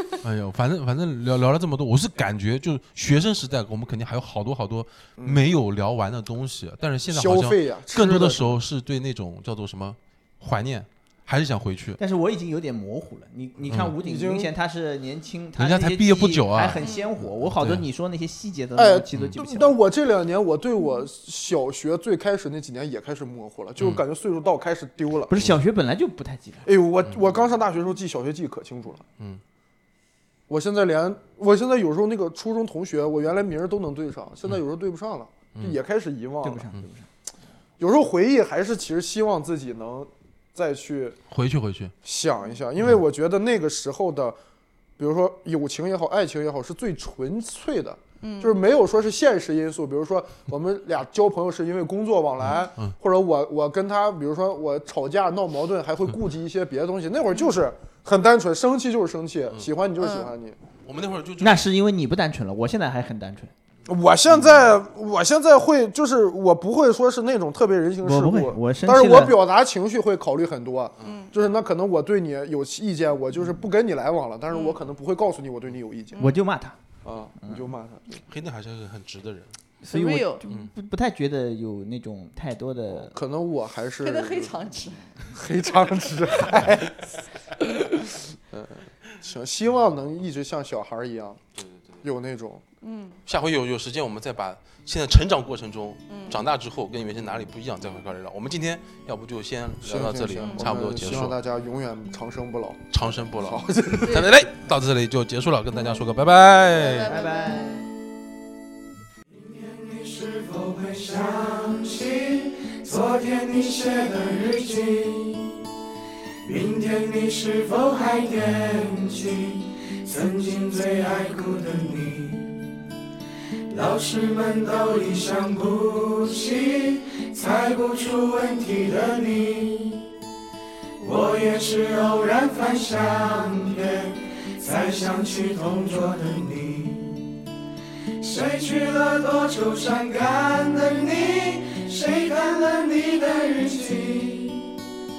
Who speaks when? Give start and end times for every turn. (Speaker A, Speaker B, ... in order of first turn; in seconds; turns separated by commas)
Speaker A: 0.2-12.0, Speaker B: 5.2-5.5, Speaker B: 7.1-8.6, Speaker C: 12.0-19.8, Speaker B: 14.0-14.5, Speaker A: 15.6-17.8, Speaker D: 16.8-17.1, Speaker B: 18.8-25.3, Speaker A: 23.8-24.0, Speaker C: 25.3-26.6, Speaker B: 26.6-29.1, Speaker A: 27.1-27.3, Speaker B: 30.5-36.7, Speaker C: 36.4-37.1, Speaker B: 37.8-41.2, Speaker A: 41.3-41.9, Speaker B: 42.0-44.4, Speaker B: 45.0-60.6, Speaker D: 48.2-48.6, Speaker A: 52.4-52.9, Speaker D: 60.0-60.3, Speaker A: 60.8-61.6, Speaker C: 61.4-63.5, Speaker B: 63.9-76.2, Speaker C: 68.0-69.4, Speaker D: 71.0-71.3, Speaker D: 74.5-74.8, Speaker D: 76.1-76.4, Speaker C: 76.2-76.8, Speaker B: 77.0-78.2, Speaker A: 78.3-79.5, Speaker C: 79.8-83.1, Speaker D: 79.9-80.4, Speaker B: 82.9-84.6, Speaker D: 84.0-85.0, Speaker B: 85.3-91.4, Speaker A: 91.6-92.0, Speaker B: 92.0-92.6, Speaker D: 92.8-93.2, Speaker A: 93.2-101.3, Speaker D: 96.1-96.4, Speaker B: 99.8-104.3, Speaker A: 102.9-107.2, Speaker D: 106.7-107.9, Speaker C: 107.1-107.7, Speaker E: 109.3-115.6, Speaker E: 116.4-122.7, Speaker E: 123.7-130.1, Speaker E: 131.0-137.4, Speaker E: 138.2-144.8